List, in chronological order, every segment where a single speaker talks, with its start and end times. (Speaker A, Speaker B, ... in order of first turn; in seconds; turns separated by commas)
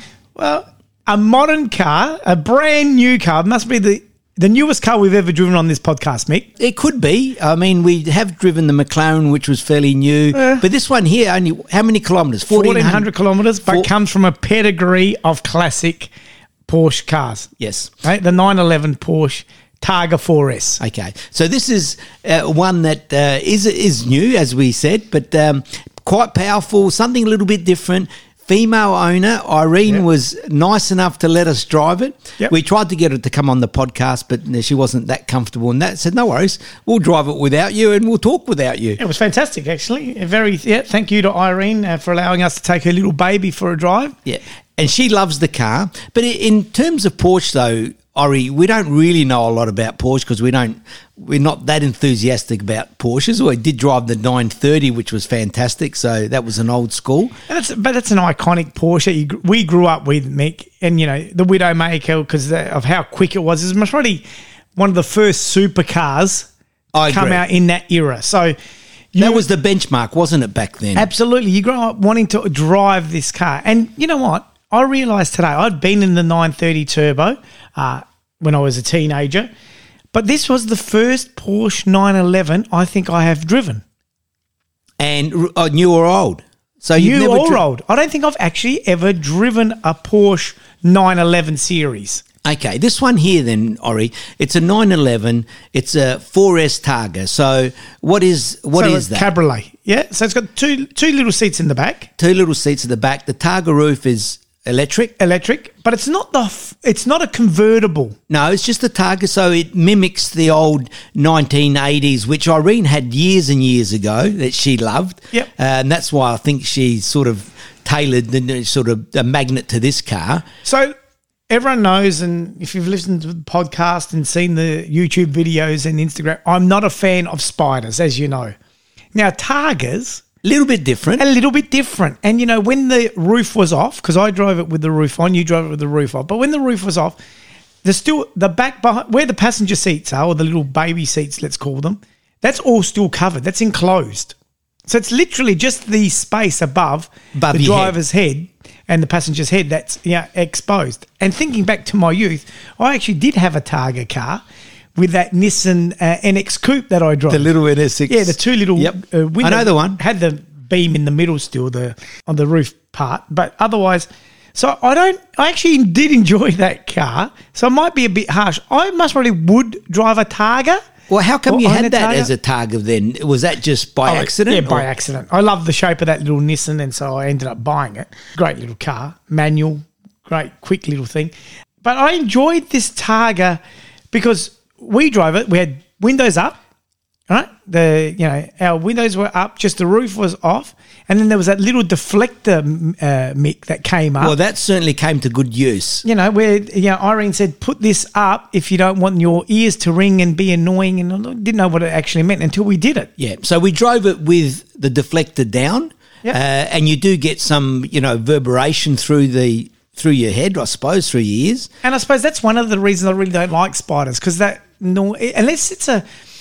Speaker A: 0.3-6.5, Speaker B: 6.6-13.1, Speaker A: 10.3-10.6, Speaker A: 12.5-16.1, Speaker A: 16.7-17.5, Speaker B: 17.6-17.9, Speaker A: 18.0-20.8, Speaker B: 20.8-39.0, Speaker A: 39.0-44.1, Speaker B: 44.2-57.3, Speaker A: 57.5-64.2, Speaker A: 64.8-66.5, Speaker B: 66.9-67.4, Speaker A: 67.1-68.5, Speaker A: 69.1-69.4, Speaker B: 69.2-71.1, Speaker A: 71.0-79.5, Speaker A: 80.1-83.8, Speaker B: 85.0-87.6, Speaker A: 87.0-92.2, Speaker B: 92.4-99.3, Speaker A: 98.8-102.1, Speaker B: 102.2-105.1, Speaker A: 105.2-108.2, Speaker B: 108.3-120.4, Speaker A: 120.6-120.9, Speaker A: 121.5-128.5, Speaker A: 129.1-130.2, Speaker B: 130.4-131.2, Speaker A: 131.2-137.2, Speaker A: 137.8-144.3, Speaker A: 144.9-154.4, Speaker B: 147.3-147.9, Speaker A: 154.9-157.5, Speaker B: 157.3-160.0, Speaker A: 158.1-170.8, Speaker B: 171.1-174.8, Speaker A: 171.5-172.3, Speaker A: 174.1-183.6, Speaker A: 184.1-186.6, Speaker A: 187.3-194.3, Speaker B: 194.2-196.0, Speaker A: 196.0-203.1, Speaker B: 203.2-211.7, Speaker A: 211.8-216.0